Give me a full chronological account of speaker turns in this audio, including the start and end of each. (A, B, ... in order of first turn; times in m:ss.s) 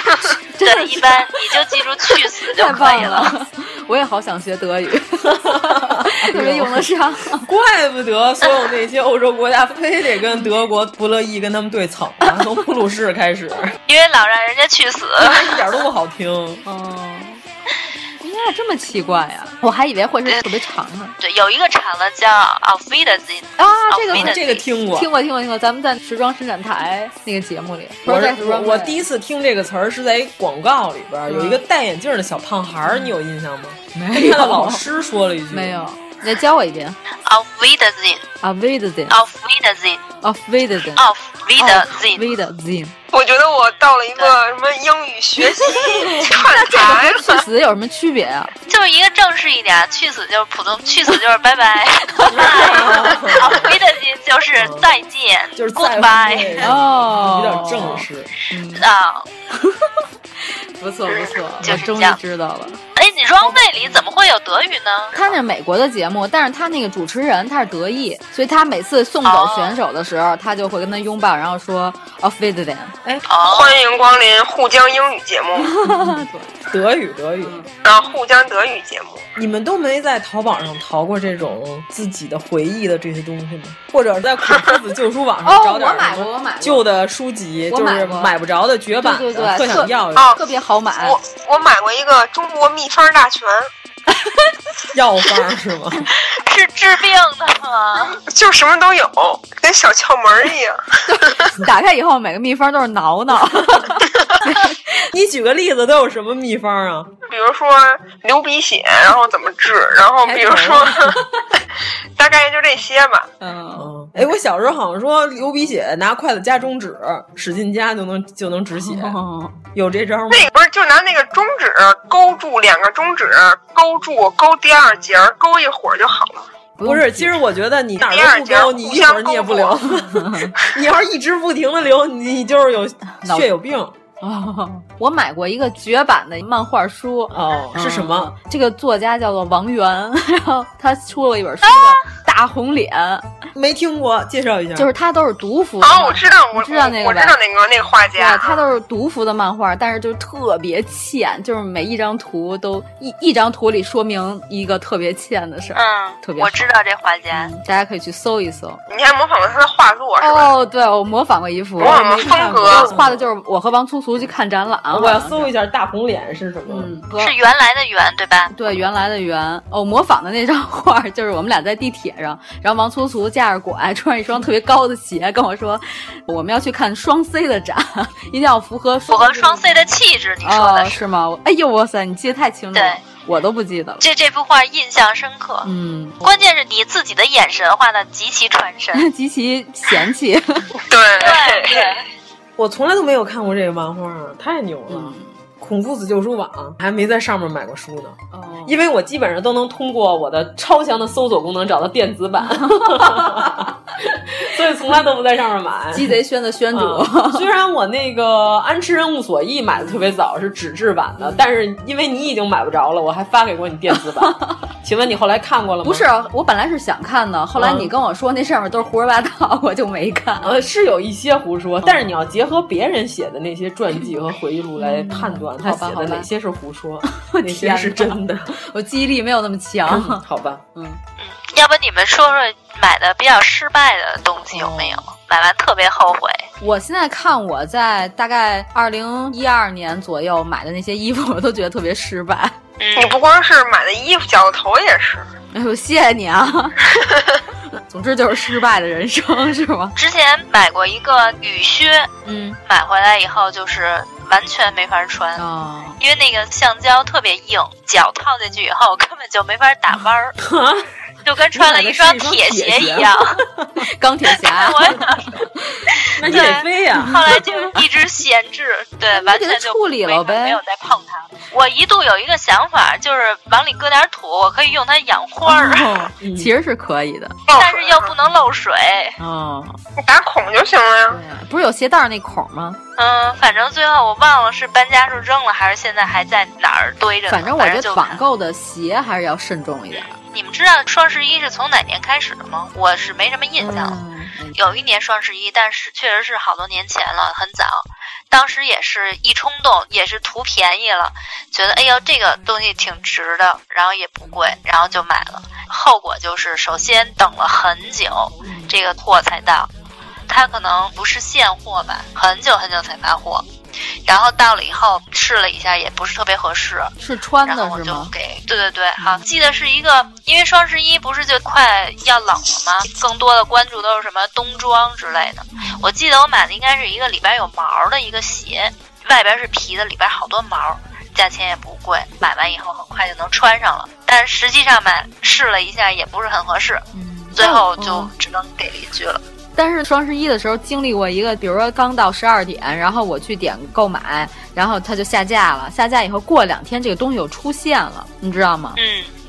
0:00.6-0:01.2 A
0:00.6-0:03.3 B
0:02.5-0:07.5 A
0:05.2-0:06.8 C
0:07.4-0:13.8 C
0:13.8-0:15.4 B
0:15.2-0:16.6 C
0:16.6-0:17.4 A
0:18.2-0:21.2 A
0:21.2-0:24.6 B
0:23.6-0:29.0 A
0:24.1-0:25.1 C
0:28.0-0:35.8 C
0:31.3-0:31.6 A
0:33.9-0:34.8 A
0:35.5-0:37.0 A
0:37.2-0:38.2 B
0:38.4-0:39.2 A
0:39.1-0:40.0 B
0:40.2-0:41.0 A
0:41.0-0:42.4 B
0:41.6-0:43.0 A
0:43.1-0:47.4 D
0:46.0-0:46.4 C
0:46.2-0:48.5 A
0:48.7-0:56.6 B
0:52.3-0:53.8 C
0:54.6-0:54.9 C
0:55.6-0:58.3 C
0:56.6-0:58.8 A
0:58.7-0:59.3 B
1:00.8-1:02.8 A
1:01.6-1:02.2 B
1:03.0-1:05.1 B
1:05.1-1:13.0 A
1:09.2-1:09.8 B
1:13.3-1:13.8 B
1:13.4-1:15.7 D
1:15.6-1:16.5 A
1:15.9-1:16.1 C
1:16.7-1:17.5 C
1:17.4-1:17.7 A
1:17.8-1:19.3 D
1:19.4-1:30.4 C
1:25.4-1:26.8 A
1:27.7-1:28.3 A
1:28.9-1:31.2 A
1:30.1-1:30.4 D
1:31.0-1:33.7 D
1:34.9-1:36.1 C
1:36.4-1:38.2 B
1:38.1-1:41.5 D
1:41.1-1:44.8 A
1:45.1-1:47.1 C
1:47.3-1:51.2 D
1:50.2-1:51.2 C
1:52.2-1:53.3 D
1:53.4-1:53.9 A
1:53.8-1:59.1 C
1:58.8-1:59.6 A
1:59.7-2:00.5 C
2:00.3-2:06.5 D
2:06.8-2:07.3 A
2:06.8-2:13.9 C
2:08.0-2:09.8 D
2:10.1-2:10.5 A
2:13.2-2:13.5 A
2:14.2-2:23.4 A
2:17.3-2:18.3 C
2:23.5-2:24.9 C
2:24.7-2:27.4 A
2:25.8-2:28.6 D
2:28.2-2:36.7 A
2:35.7-2:37.5 B
2:37.3-2:38.8 A
2:38.9-2:40.5 D
2:40.2-2:45.5 A
2:41.8-2:42.9 D
2:41.8-2:43.2 C
2:44.9-2:46.9 C
2:46.7-2:47.3 A
2:47.2-2:48.5 B
2:48.5-2:59.8 A
2:59.1-3:01.0 B
3:00.4-3:04.0 A
3:02.7-3:03.0 B
3:04.0-3:05.7 B
3:05.6-3:06.2 A
3:06.2-3:09.0 B
3:08.9-3:10.7 A
3:10.9-3:12.0 D
3:11.2-3:12.0 B
3:12.6-3:26.2 C
3:14.9-3:15.3 A
3:18.3-3:18.8 A
3:22.6-3:23.6 A
3:25.9-3:27.5 A
3:26.7-3:36.1 C
3:34.2-3:34.5 A
3:35.8-3:40.6 A
3:37.6-3:37.9 C
3:40.4-3:48.5 C
3:41.8-3:42.1 A
3:44.8-3:46.3 A
3:47.1-3:50.2 A
3:49.9-3:50.6 C
3:50.7-3:51.0 A
3:51.2-3:56.4 B
3:54.5-3:55.0 A
3:56.6-4:02.6 A
4:02.8-4:03.2 B
4:02.9-4:05.3 D
4:05.5-4:06.8 A
4:07.0-4:07.4 D
4:07.9-4:09.9 A
4:10.0-4:12.1 B
4:12.2-4:12.6 A
4:12.6-4:15.4 B
4:15.4-4:16.0 A
4:16.0-4:20.4 B
4:20.4-4:20.9 C
4:21.2-4:23.4 B
4:21.5-4:23.7 C
4:23.8-4:27.4 A
4:24.4-4:25.3 B
4:26.2-4:27.2 C
4:26.2-4:35.9 B
4:29.1-4:30.6 A
4:35.4-4:37.4 A
4:36.2-4:36.5 C
4:37.5-4:38.1 D
4:37.5-4:39.2 B
4:39.2-4:39.8 A
4:40.0-4:41.2 D
4:41.1-4:42.8 A
4:43.0-4:48.2 B
4:47.3-4:50.2 A
4:49.9-4:54.0 B
4:53.6-4:54.5 A
4:54.5-5:09.7 B
5:08.4-5:08.7 A
5:10.3-5:13.4 B
5:14.0-5:39.2 B
5:17.0-5:18.1 A
5:36.9-5:38.1 A
5:39.6-5:48.8 A
5:48.8-5:49.1 B